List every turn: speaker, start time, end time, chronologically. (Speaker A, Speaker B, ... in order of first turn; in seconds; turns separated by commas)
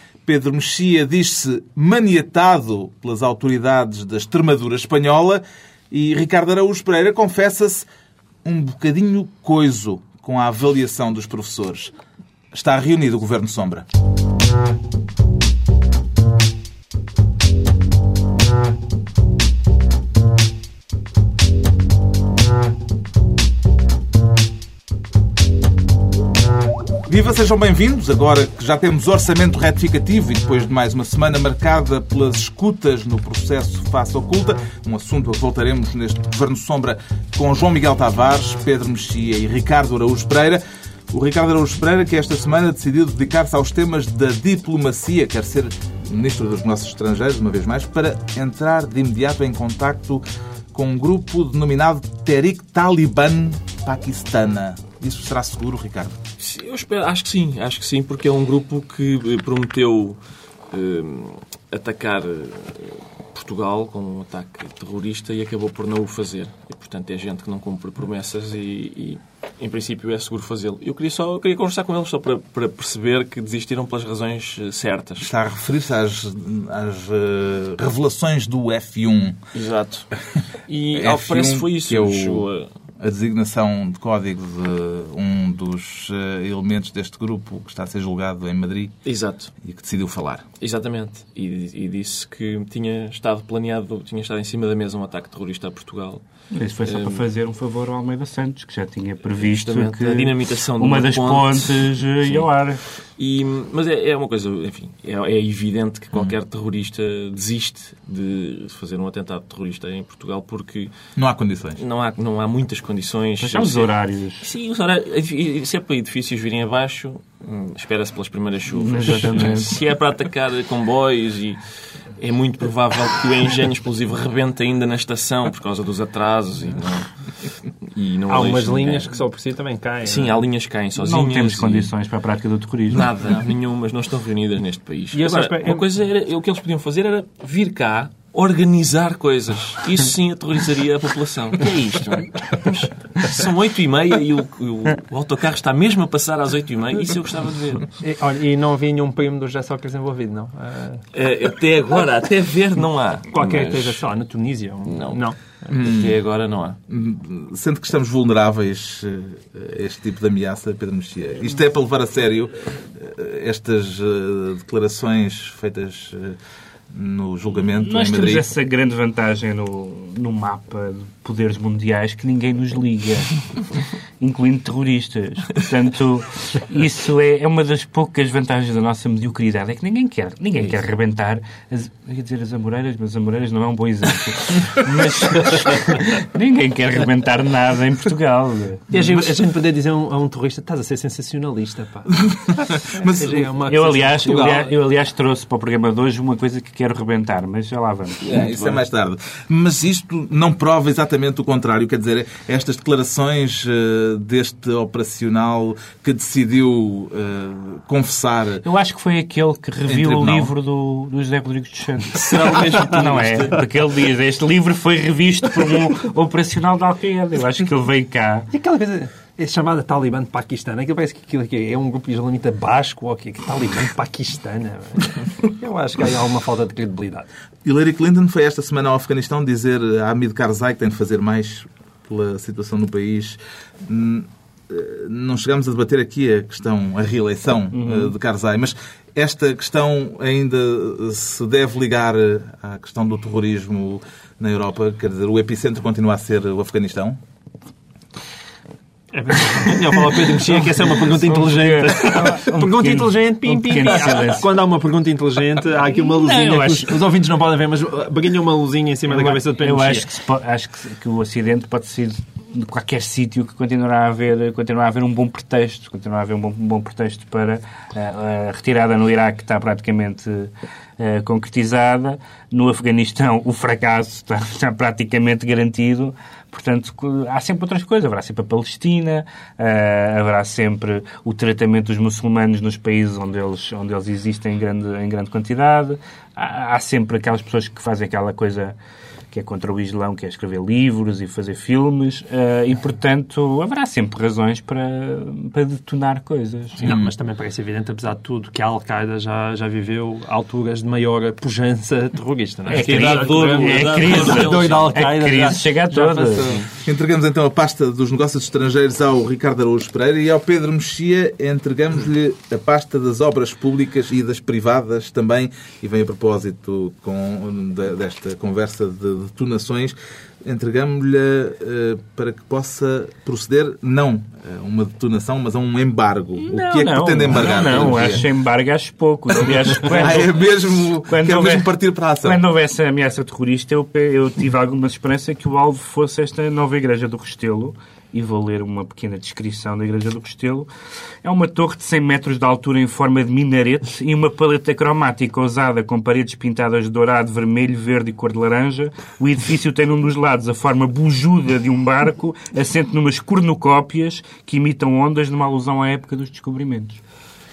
Speaker A: 0.3-7.9, Speaker A: 8.4-11.9, Speaker A: 12.5-13.9, Speaker A: 27.1-50.2, Speaker A: 50.7-56.2, Speaker B: 56.4-75.3, Speaker A: 75.2-79.4, Speaker B: 79.5-80.1, Speaker B: 80.7-82.7, Speaker A: 80.9-82.5, Speaker A: 83.0-89.0, Speaker B: 89.1-89.5, Speaker A: 89.6-90.5, Speaker B: 90.6-96.2, Speaker C: 96.5-102.8, Speaker B: 96.8-97.2, Speaker B: 99.3-102.5, Speaker B: 103.2-110.9, Speaker A: 111.2-111.8, Speaker B: 111.8-129.2, Speaker C: 113.4-114.5, Speaker C: 118.7-119.7, Speaker D: 128.3-130.4, Speaker B: 130.1-131.9, Speaker C: 131.0-133.1, Speaker B: 132.9-147.9, Speaker D: 135.1-135.8, Speaker D: 148.0-151.0, Speaker B: 151.1-154.0, Speaker D: 153.3-155.4, Speaker B: 154.8-156.8, Speaker A: 155.7-156.2, Speaker A: 156.9-166.4, Speaker A: 166.9-168.5, Speaker C: 167.8-173.4, Speaker C: 174.2-188.9, Speaker D: 188.9-194.7, Speaker A: 192.2-193.5, Speaker C: 193.7-198.7, Speaker A: 198.2-208.6, Speaker C: 208.6-218.5, Speaker A: 209.9-210.5, Speaker B: 212.1-213.6, Speaker D: 218.5-227.3, Speaker A: 227.7-247.2, Speaker C: 237.7-238.1, Speaker D: 249.1-260.1, Speaker C: 251.0-254.4, Speaker C: 255.9-257.0, Speaker C: 259.1-288.8, Speaker C: 289.3-297.0, Speaker D: 296.8-306.7, Speaker A: 296.8-297.1, Speaker B: 302.7-305.1, Speaker C: 302.7-306.5, Speaker A: 306.8-328.3, Speaker C: 326.4-331.7, Speaker A: 329.8-332.4, Speaker C: 332.2-340.7, Speaker C: 341.2-357.0